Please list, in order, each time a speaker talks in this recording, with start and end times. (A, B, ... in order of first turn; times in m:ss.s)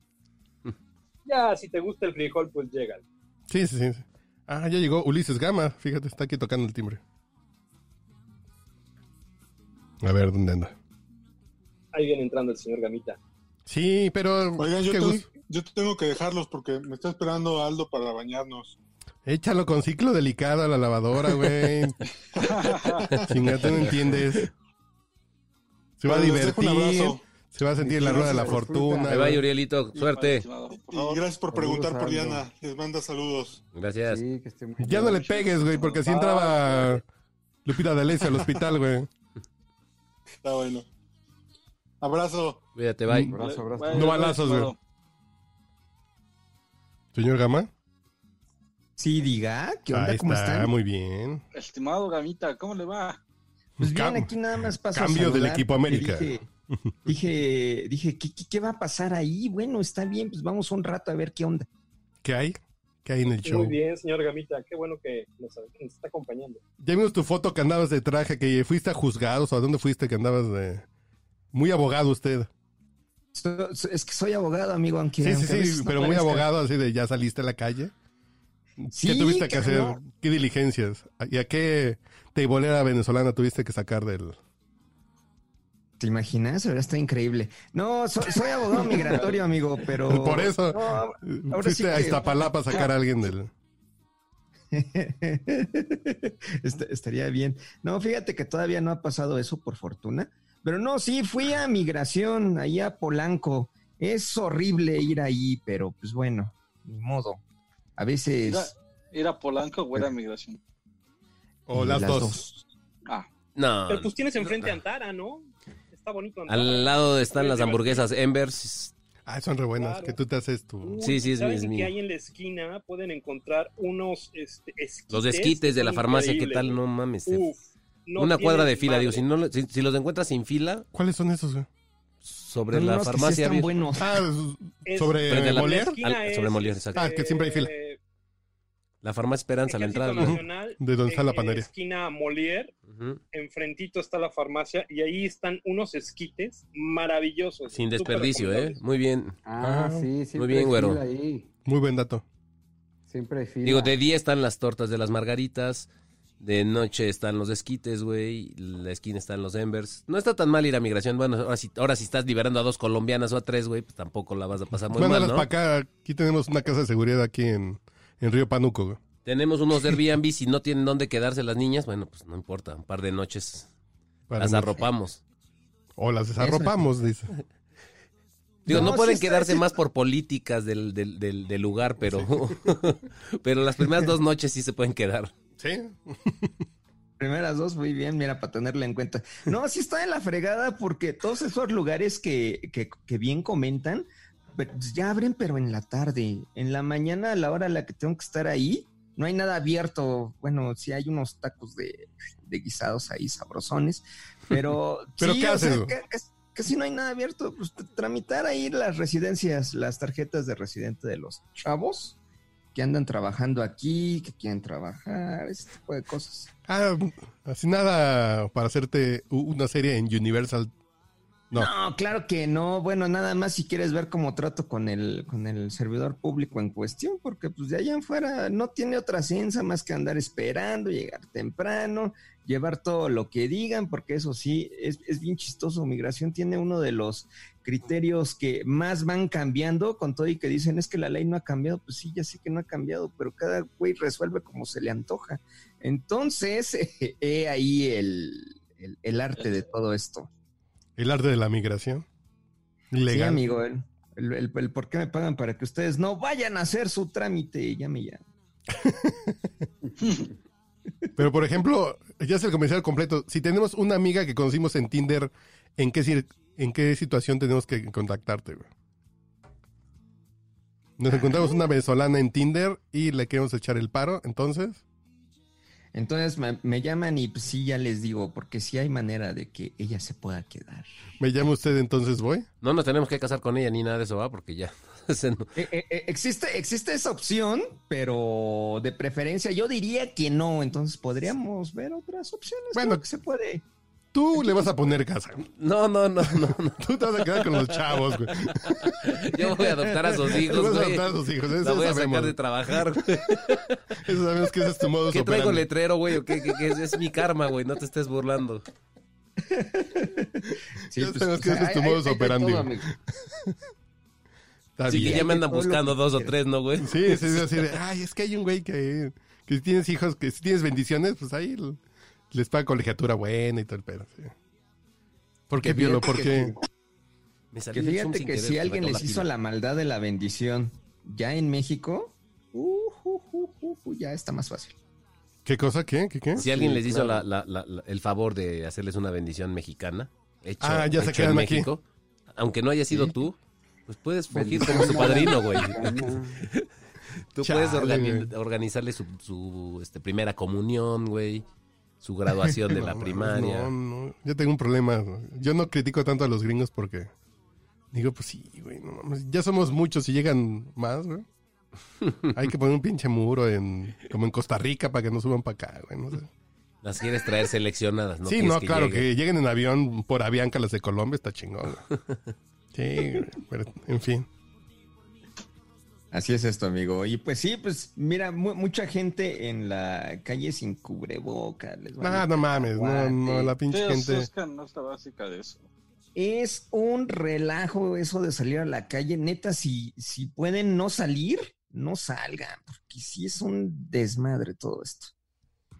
0:01.2-0:03.0 A
0:03.5-0:07.0 B
0:10.0-0:10.7 B
0:11.9-0:13.2 A
0:13.6-0:15.2 B
0:14.6-0:18.8 C
0:19.2-0:22.0 B
0:22.3-0:23.3 C
0:22.5-0:23.0 D
0:23.1-0:24.4 E
0:23.3-0:24.5 B
0:26.0-0:29.4 B
0:26.0-0:27.2 C
0:27.8-0:29.3 F
0:28.0-0:28.6 C
0:29.1-0:30.4 E
0:29.9-0:31.3 D
0:30.9-0:33.6 C
0:31.5-0:32.4 F
0:33.7-0:34.2 E
0:34.0-0:35.5 F
0:34.8-0:37.0 B
0:35.7-0:37.0 D
0:37.6-0:39.1 B
0:40.4-0:40.8 C
0:42.0-0:42.6 C
0:42.8-0:43.4 E
0:43.1-0:43.4 B
0:43.3-0:44.4 F
0:43.3-0:44.8 D
0:43.9-0:44.7 B
0:47.1-0:47.7 B
0:49.0-0:50.7 G
0:49.9-0:51.4 B
0:51.5-0:53.2 D
0:53.8-0:56.4 G
0:53.8-0:57.0 B
0:57.0-1:01.7 G
1:02.2-1:03.8 B
1:03.4-1:06.6 A
1:06.8-1:10.8 B
1:11.5-1:12.5 B
1:13.3-1:16.5 G
1:15.2-1:17.9 B
1:18.8-1:24.4 B
1:18.9-1:20.0 G
1:26.0-1:32.8 G
1:28.8-1:29.3 B
1:30.0-1:33.5 B
1:34.7-1:47.4 G
1:48.0-1:48.7 G
1:48.4-1:50.6 D
1:51.7-1:52.4 B
1:51.7-1:52.6 G
1:53.6-1:54.6 E
1:53.9-1:58.0 A
1:56.5-1:58.9 E
1:59.2-2:01.0 B
1:59.8-2:00.2 A
2:00.8-2:09.2 A
2:01.0-2:01.9 E
2:05.1-2:07.5 E
2:08.2-2:10.9 E
2:10.9-2:11.7 B
2:12.2-2:13.7 E
2:12.7-2:14.2 G
2:14.0-2:15.9 B
2:14.8-2:18.0 A
2:15.3-2:17.1 E
2:16.9-2:17.7 B
2:19.0-2:20.4 E
2:19.7-2:22.7 A
2:20.2-2:21.7 B
2:22.9-2:23.2 E
2:23.3-2:28.8 A
2:27.7-2:29.4 E
2:29.4-2:31.5 F
2:29.6-2:30.1 B
2:30.3-2:31.0 E
2:31.6-2:32.2 B
2:33.1-2:33.9 F
2:33.6-2:35.9 E
2:36.4-2:45.5 E
2:44.9-2:49.0 B
2:49.2-2:53.7 E
2:54.3-2:54.9 B
2:54.4-2:55.2 E
2:56.0-2:57.3 B
2:56.4-2:56.8 G
2:58.6-2:59.8 G
2:58.6-3:05.3 E
2:58.7-2:59.0 B
3:02.0-3:02.3 B
3:05.6-3:06.6 B
3:07.2-3:32.2 G
3:25.2-3:25.9 B
3:32.7-3:36.5 G
3:36.7-3:40.7 B
3:41.5-4:10.3 G
4:11.0-4:12.0 B
4:12.9-4:13.5 B
4:13.0-4:18.2 G
4:18.7-4:19.4 B
4:21.2-4:28.7 B
4:31.0-4:34.8 B
4:31.1-4:31.6 G
4:35.9-4:40.9 G
4:41.2-4:42.5 B
4:42.6-4:45.5 E
4:45.6-4:53.6 G
4:52.7-4:53.0 B
4:54.1-4:55.5 B
4:55.6-5:04.0 E
4:56.2-4:59.2 B
4:59.6-5:00.3 G
5:00.0-5:02.8 B
5:04.0-5:05.7 B
5:05.1-5:08.6 E
5:06.3-5:06.5 B
5:09.4-5:12.8 G
5:10.9-5:13.6 B
5:14.8-5:15.3 B
5:14.9-5:16.3 G
5:14.9-5:17.4 E
5:16.8-5:21.8 B
5:22.3-5:24.3 B
5:25.5-5:26.5 B
5:25.6-5:26.6 G
5:27.5-5:29.3 E
5:27.7-5:34.8 G
5:35.4-5:36.4 B
5:36.4-5:41.8 E
5:36.4-5:37.2 F
5:40.6-5:41.7 B
5:42.3-5:46.7 E
5:44.3-5:46.4 F
5:47.3-5:51.4 E
5:47.4-5:48.3 B
5:52.0-5:53.7 E
5:52.6-5:57.1 B
5:57.9-6:01.2 B
6:02.3-6:06.3 B
6:06.8-6:09.1 E
6:08.2-6:11.8 B
6:12.0-6:12.2 E
6:12.7-6:14.3 B
6:16.1-6:23.5 G
6:22.0-6:24.3 B
6:23.6-6:25.7 D
6:26.1-6:35.1 G